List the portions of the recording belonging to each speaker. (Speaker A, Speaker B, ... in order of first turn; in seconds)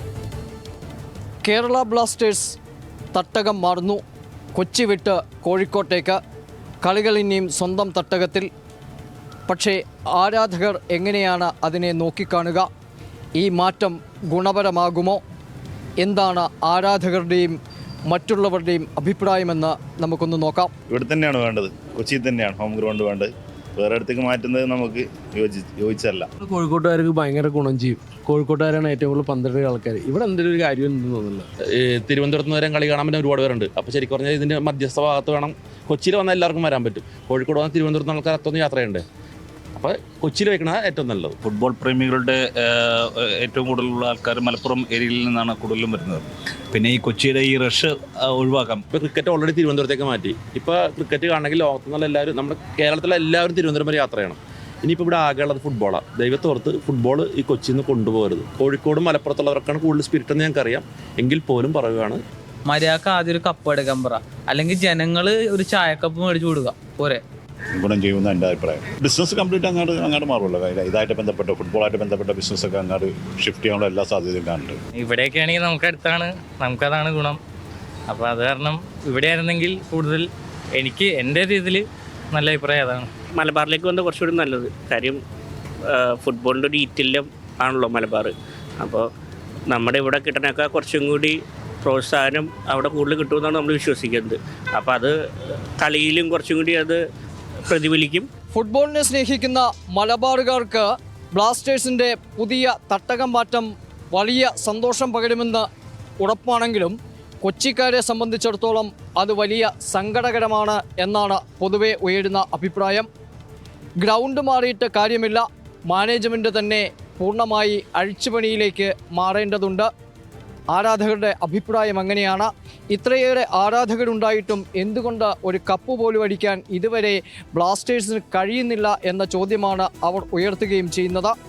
Speaker A: 1.4-2.6, 3.1-4.0, 4.5-6.2, 6.8-8.5, 9.5-12.7, 13.4-15.2, 16.0-17.6, 18.1-20.7, 98.5-105.7, 106.2-113.1, 114.0-119.9, 120.7-131.3
Speaker B: 20.9-26.3, 67.8-74.8
Speaker C: 26.5-31.4
Speaker D: 31.7-39.0, 39.8-41.4, 48.9-62.2
Speaker E: 41.4-46.0, 46.7-48.8
Speaker F: 62.7-67.2
Speaker G: 75.0-77.4, 78.1-83.1
Speaker H: 83.4-85.2, 85.9-89.0, 89.7-95.1, 95.8-97.0, 97.7-98.3